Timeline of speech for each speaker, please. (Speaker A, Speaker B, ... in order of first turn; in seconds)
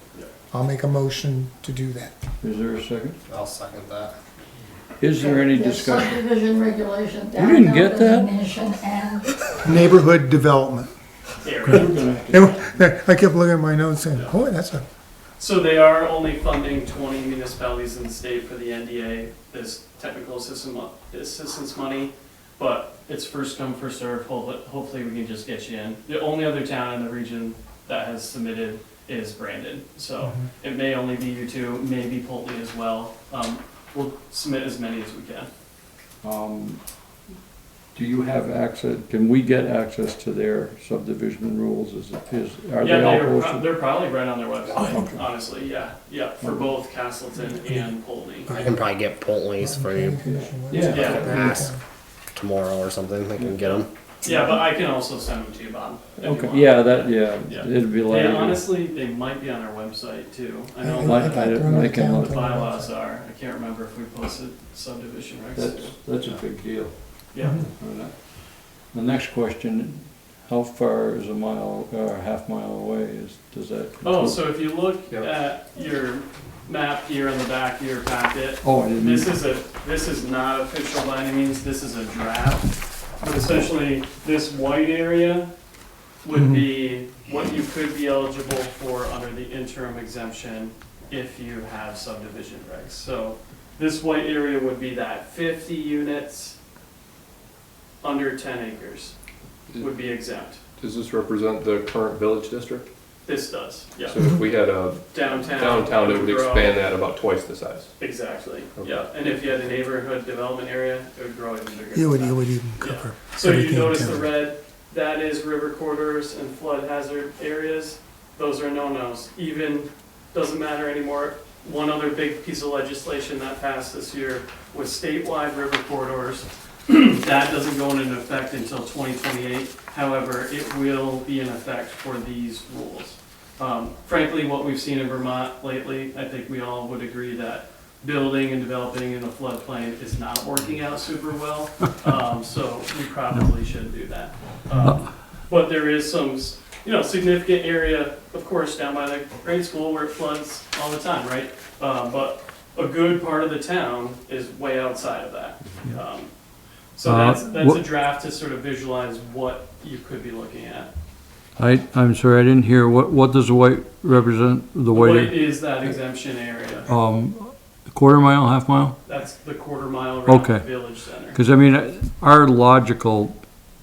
Speaker A: 0.5-2.1, 9.6-10.9, 12.3-14.8, 44.9-45.2, 49.6-51.8, 60.8-62.9, 67.4-67.7, 86.3-86.7, 111.9-114.3
Speaker B: 2.4-3.2, 5.0-6.2, 7.4-8.4, 11.7-12.7, 36.2-36.8, 37.9-43.7, 44.8-45.2, 46.4-46.7, 50.7-51.6, 56.2-58.6, 61.0-62.5, 65.6-74.5, 78.6-79.3, 144.8-145.1, 157.0-157.8, 161.6-165.5, 166.9-169.0, 170.3-173.4
Speaker C: 3.3-4.2, 48.5-50.2, 50.8-51.8, 52.4-53.9
Speaker D: 5.1-9.4
Speaker E: 11.4-12.2, 15.4-35.5, 42.8-48.5, 50.9-51.4, 54.2-66.4, 67.3-67.7, 74.0-85.5, 86.2-96.6, 98.0-99.2, 99.8-100.6, 103.3-104.2, 105.1-106.8, 108.0-156.3, 157.0-160.9, 164.9-166.9, 169.1-171.4
Speaker F: 75.1-75.3, 100.8-102.9, 104.0-107.9